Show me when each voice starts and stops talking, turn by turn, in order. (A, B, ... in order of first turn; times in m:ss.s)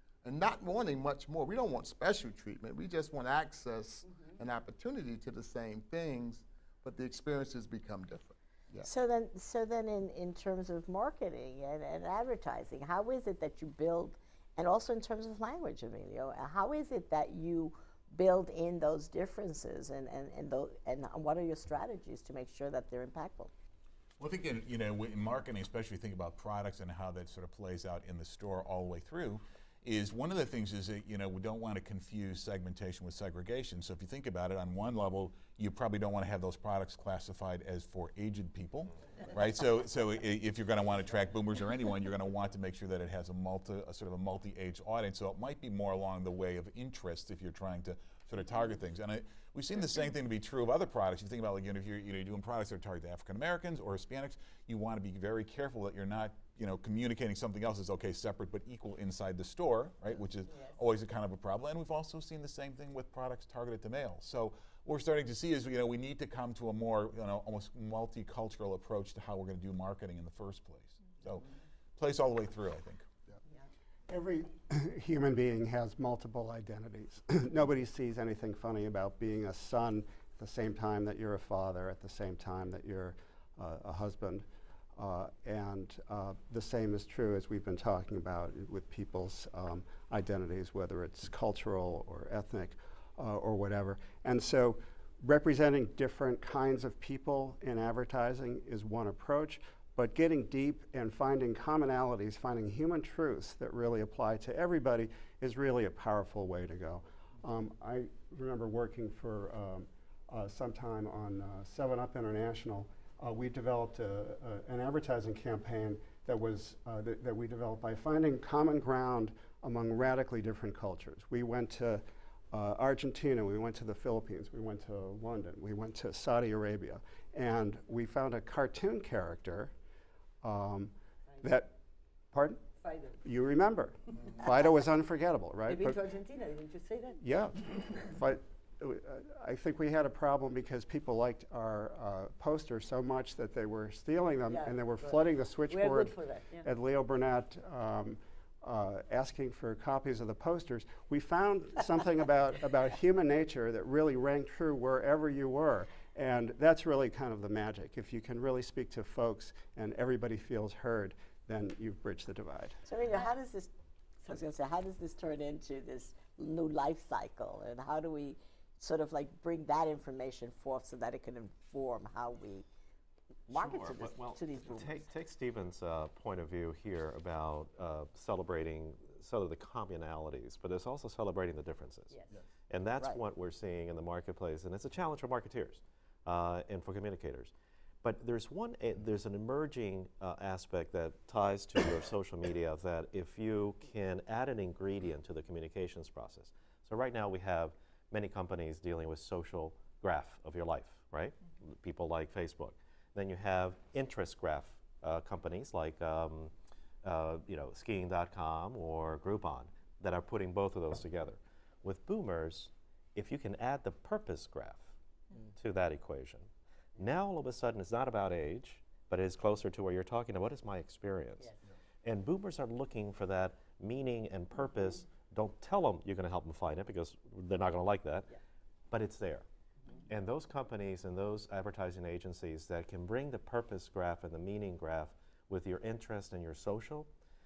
0:00.2-0:08.9 A
0:04.1-0:04.4 B
0:08.8-0:23.5 C
0:24.2-1:13.1 D
1:00.4-1:00.8 B
1:14.1-2:09.7 E
2:10.4-2:11.8 E
2:12.3-2:12.7 E
2:12.8-2:13.2 B
2:13.2-2:16.0 E
2:15.6-2:17.2 B
2:17.2-2:42.8 E
2:24.5-2:26.7 B
2:42.8-2:43.7 C
2:44.2-2:52.6 C
2:53.5-3:02.2 F
2:53.5-2:55.0 C
3:02.7-3:07.5 F
3:08.0-3:26.5 F
3:27.0-3:34.9 F
3:35.6-3:41.5 F
3:42.0-3:48.3 F
3:48.9-3:49.4 F
3:50.1-3:57.1 F